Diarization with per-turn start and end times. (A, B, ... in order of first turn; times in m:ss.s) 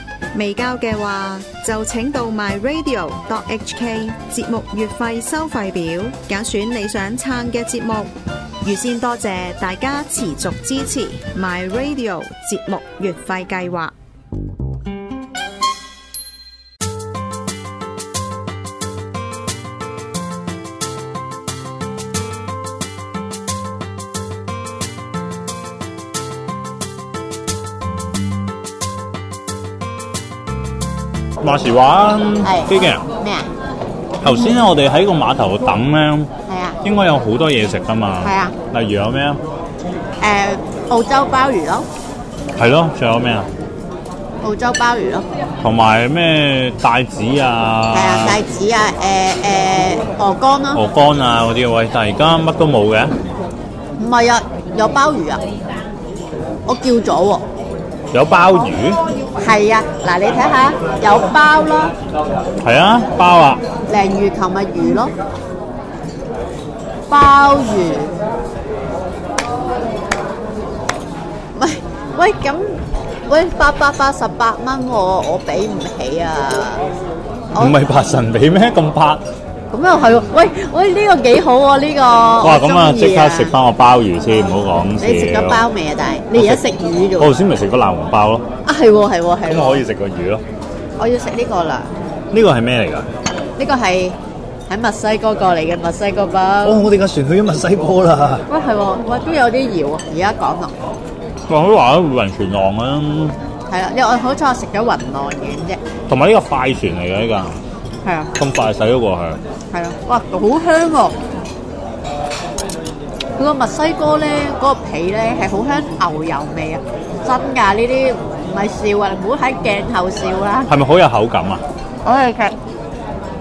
0:00.3-0:13.9 A
0:31.4-0:33.0 B
0:32.4-0:33.5 C
0:34.2-0:36.3 B
0:36.5-0:36.8 C
0:36.8-0:39.4 B
0:38.2-0:38.6 C
0:40.2-0:41.9 C
0:42.6-0:43.5 B
0:44.4-0:45.3 C
0:45.6-0:48.4 B
0:47.9-0:50.8 C
0:50.8-0:53.1 B
0:54.0-0:55.4 C
0:56.7-0:57.4 C
0:58.1-0:59.0 B
0:59.4-1:01.9 C
1:02.6-1:03.6 B
1:03.9-1:05.1 C
1:07.1-1:08.1 C
1:11.6-1:12.8 C
1:13.3-1:16.8 C
1:17.6-1:19.2 B
1:19.7-1:23.5 C
1:22.4-1:25.6 B
1:25.0-1:27.3 C
1:27.2-1:28.5 B
1:28.6-1:29.8 C
1:29.5-1:30.4 B
1:31.0-1:31.9 C
1:32.3-1:33.1 B
1:33.6-1:36.8 C
1:36.6-1:38.4 B
1:38.5-1:40.8 C
1:41.5-1:43.4 B
1:43.7-1:45.8 C
1:46.1-1:47.5 B
1:48.0-1:48.3 C
1:48.4-1:49.4 B
1:49.7-1:51.2 C
1:53.4-2:00.7 C
2:00.7-2:01.6 B
2:02.0-2:02.5 C